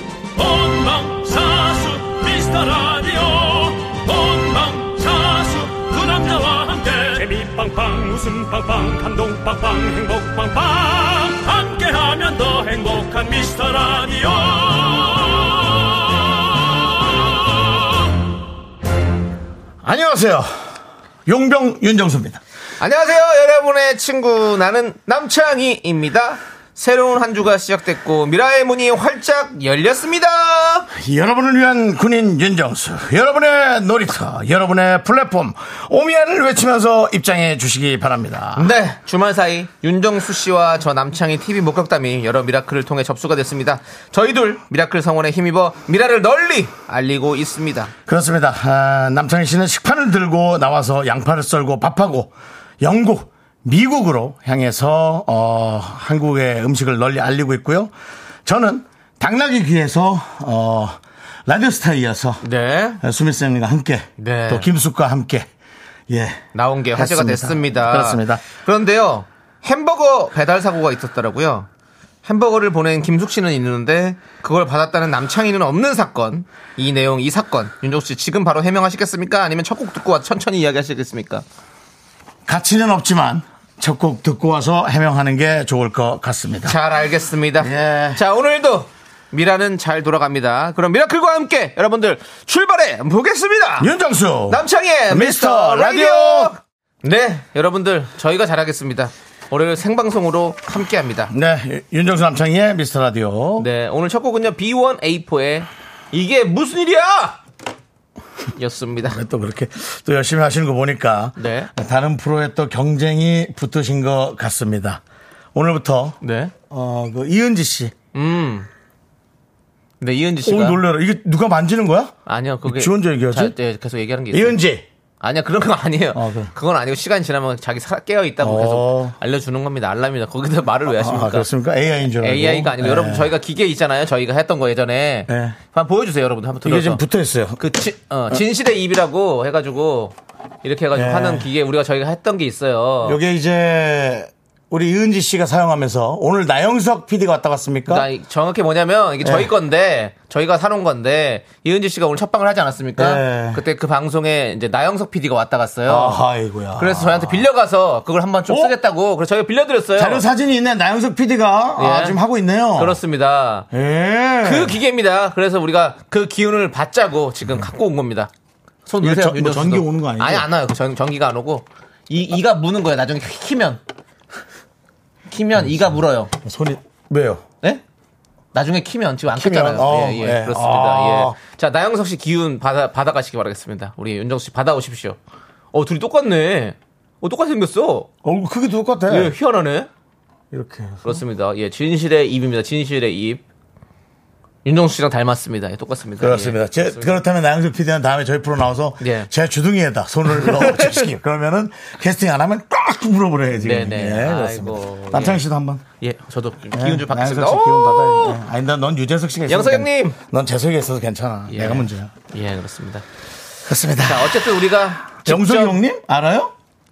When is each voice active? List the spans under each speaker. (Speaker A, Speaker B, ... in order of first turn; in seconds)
Speaker A: 0.3-16.7
Speaker B: 19.8-22.4, 30.9-38.7, 48.1-57.9, 58.4-62.4, 63.0-65.5, 66.1-68.4, 82.5-86.8, 87.6-88.2, 93.8-96.5, 101.3-103.7, 109.1-115.0, 115.5-116.2, 116.7-117.9, 120.4-123.5, 124.3-124.8, 126.1-126.5, 128.4-129.2, 130.9-133.3, 135.3-135.6, 136.6-137.6, 140.9-141.5, 143.0-148.1, 149.2-149.5, 153.0-153.6, 155.8-157.4, 158.5-158.8, 159.9-163.0, 163.7-164.8, 169.0-170.5, 175.6-177.4, 179.3-181.3, 188.2-189.3, 190.5-191.2, 196.2-205.8, 206.7-212.1, 213.6-214.4, 215.2-216.5
Speaker C: 22.8-30.9, 38.5-47.9, 62.4-63.0, 64.2-64.7, 66.5-71.7, 72.2-81.4, 86.6-93.9, 94.5-101.3, 103.6-107.4, 108.5-109.2, 111.4-111.7, 116.2-116.5, 118.1-118.7, 120.0-120.8, 122.2-124.6, 125.2-131.5, 132.2-137.0, 137.6-143.2, 147.9-156.2, 156.8-160.2, 161.8-162.2, 162.7-163.7, 164.4-168.3, 168.8-173.8, 175.3-176.3, 178.5-185.2, 185.7-188.1, 189.1-189.9, 191.0-193.4, 194.6-197.2, 199.0-199.3, 200.3-201.1, 203.6-205.4, 206.0-208.4, 209.5-210.2, 211.5-213.0, 214.0-215.8